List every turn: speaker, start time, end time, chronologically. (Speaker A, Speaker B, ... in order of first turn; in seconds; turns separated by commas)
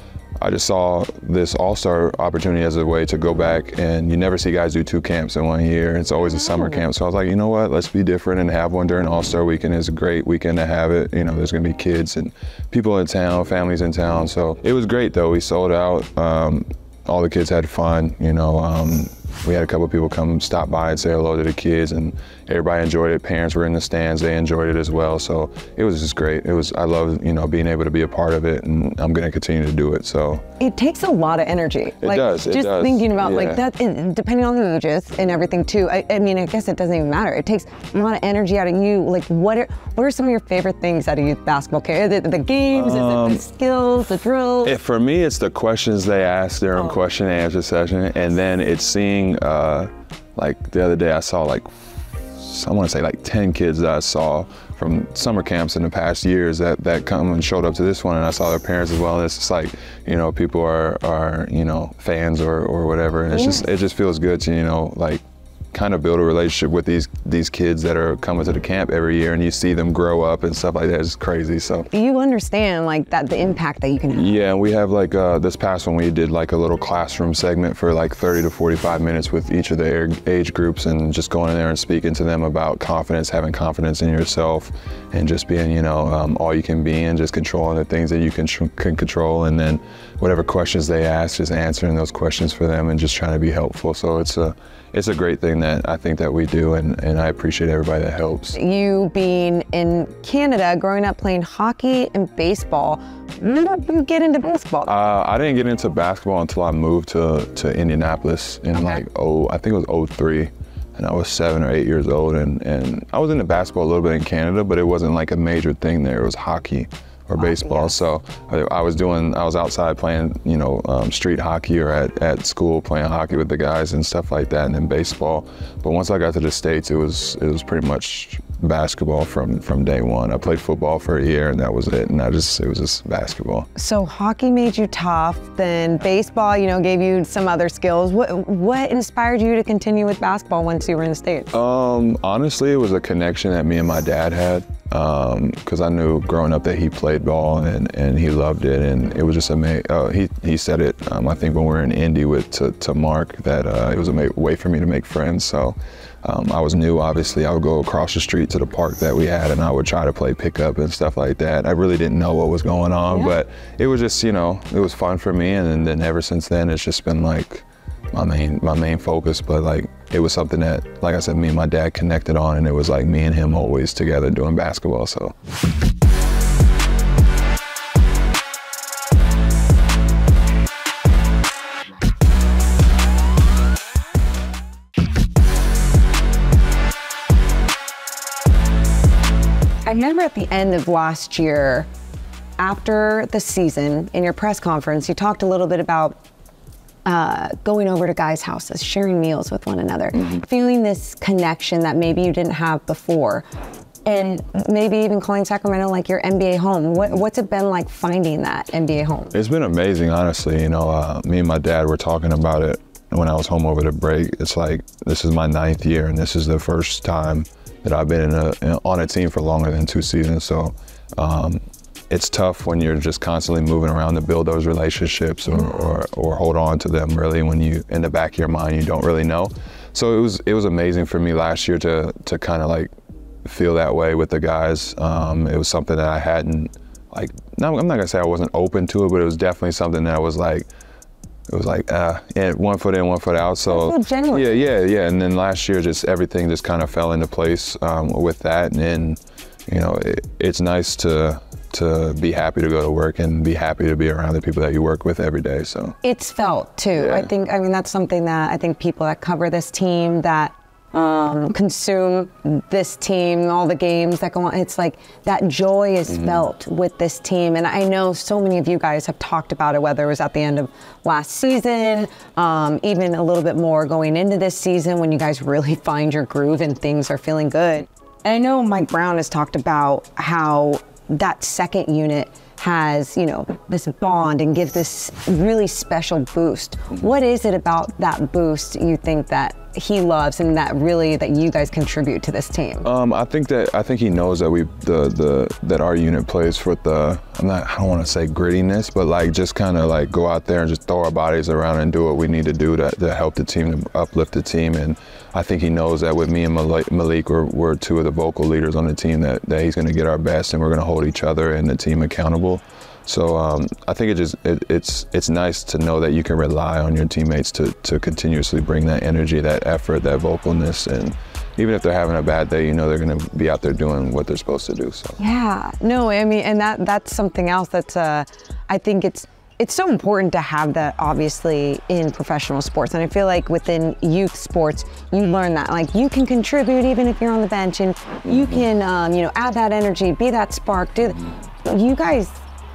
Speaker A: 0.4-30.4, Speaker B: 6.5-6.8, Speaker B: 30.6-44.8, Speaker A: 32.0-33.6, Speaker A: 42.7-43.5, Speaker A: 44.6-71.9, Speaker B: 63.3-63.6, Speaker B: 71.9-74.4, Speaker A: 74.1-98.6, Speaker B: 98.5-104.9, Speaker A: 104.9-133.7, Speaker B: 117.4-118.0, Speaker B: 133.8-141.6, Speaker A: 141.5-175.3, Speaker B: 189.9-191.9, Speaker B: 192.6-196.2, Speaker B: 197.1-203.5, Speaker B: 204.1-209.3, Speaker A: 209.3-232.9, Speaker A: 233.4-240.7, Speaker A: 241.5-256.0, Speaker B: 243.7-244.6, Speaker B: 256.0-292.9, Speaker A: 256.9-257.3, Speaker A: 266.1-266.5, Speaker A: 292.8-325.2, Speaker B: 325.2-342.4, Speaker A: 338.3-338.6